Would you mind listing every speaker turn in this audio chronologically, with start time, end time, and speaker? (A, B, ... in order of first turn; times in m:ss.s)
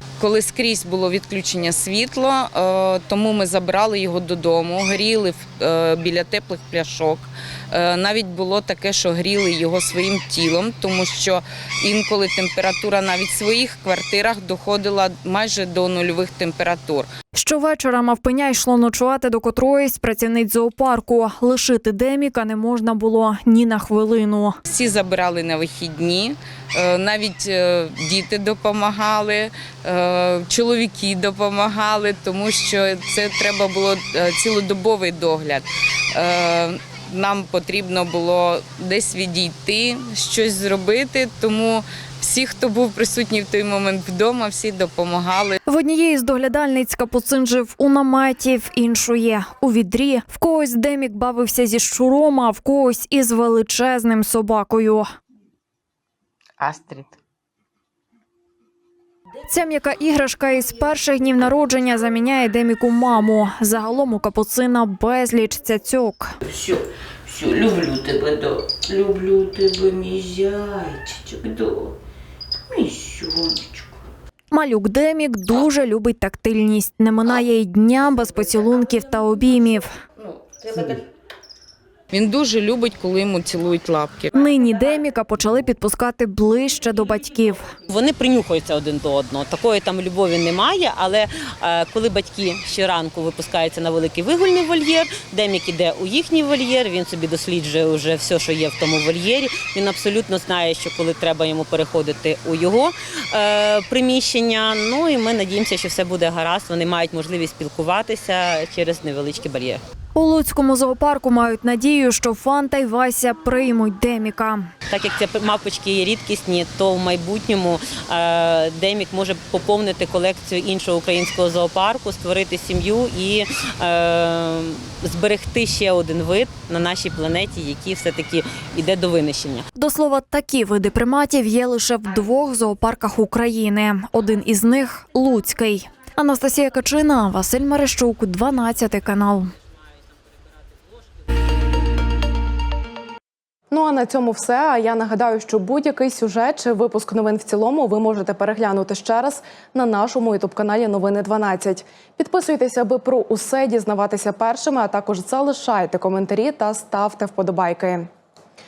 0:00.2-0:17.1 A
0:17.3-0:24.6 B
0:24.6-0:45.6 A
0:45.6-0:55.1 B
0:56.6-0:57.1 C
0:59.5-1:06.3 B
1:06.4-1:12.0 C
1:12.7-1:14.0 C
1:14.5-1:19.9 B
1:20.2-1:21.0 C
1:22.1-1:24.3 A
1:24.3-1:27.7 B
1:27.9-1:49.8 D
1:50.1-1:54.7 B
1:54.9-2:09.6 D
2:09.7-2:19.5 B
2:23.7-2:38.1 E